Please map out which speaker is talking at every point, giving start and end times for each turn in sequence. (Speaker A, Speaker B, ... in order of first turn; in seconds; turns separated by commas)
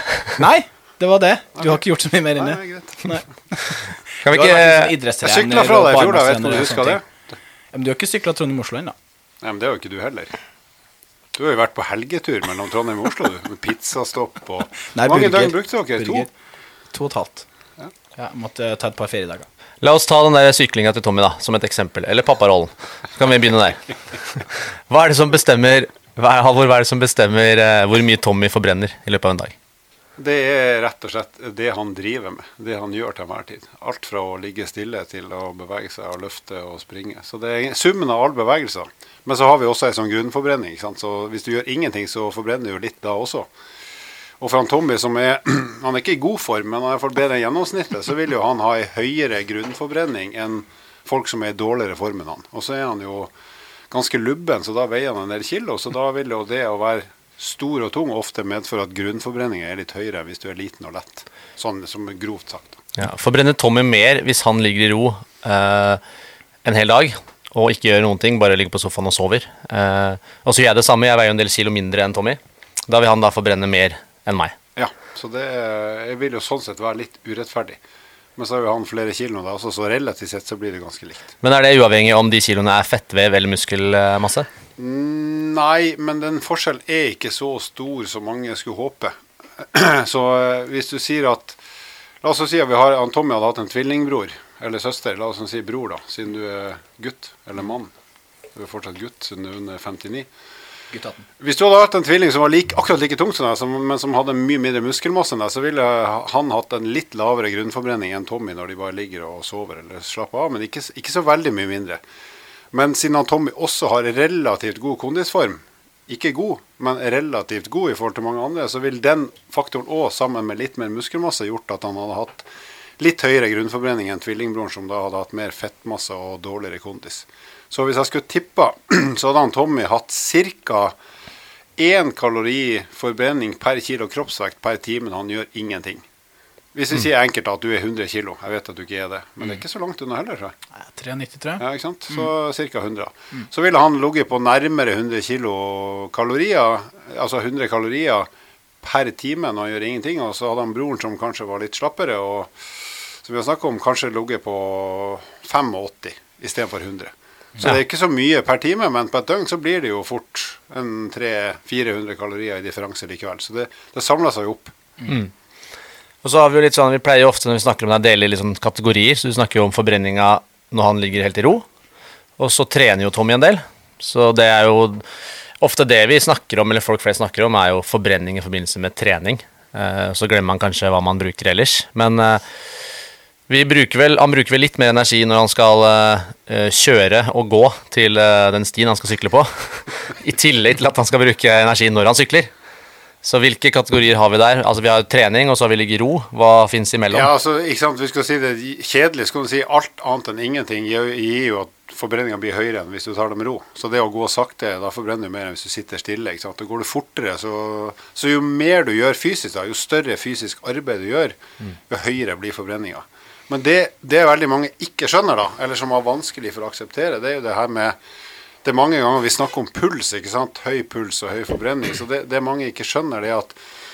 Speaker A: 0.4-7.0, Speaker B: 2.4-3.1, Speaker C: 4.2-4.9, Speaker B: 5.2-7.1, Speaker A: 7.7-8.9, Speaker B: 9.4-10.3, Speaker B: 11.3-16.3, Speaker A: 14.9-16.3, Speaker A: 16.9-17.5, Speaker A: 18.2-19.5, Speaker C: 19.8-29.5, Speaker B: 30.2-43.5, Speaker B: 44.4-53.3, Speaker B: 53.9-62.8, Speaker C: 63.0-66.0, Speaker C: 66.6-74.6, Speaker B: 74.8-77.8, Speaker B: 78.4-81.3, Speaker C: 81.4-84.5, Speaker B: 84.8-91.6, Speaker B: 92.2-97.9, Speaker B: 98.5-100.3, Speaker A: 100.9-101.2, Speaker B: 101.4-112.0, Speaker B: 112.7-122.5, Speaker B: 123.0-131.0, Speaker B: 131.8-136.1, Speaker B: 136.7-140.5, Speaker A: 140.8-141.6, Speaker B: 141.6-148.3, Speaker B: 148.8-164.8, Speaker C: 166.2-171.7, Speaker C: 172.4-175.0, Speaker C: 175.6-182.4, Speaker C: 183.5-192.5, Speaker C: 193.2-197.3, Speaker B: 197.1-211.4, Speaker B: 211.9-218.0, Speaker B: 218.6-223.6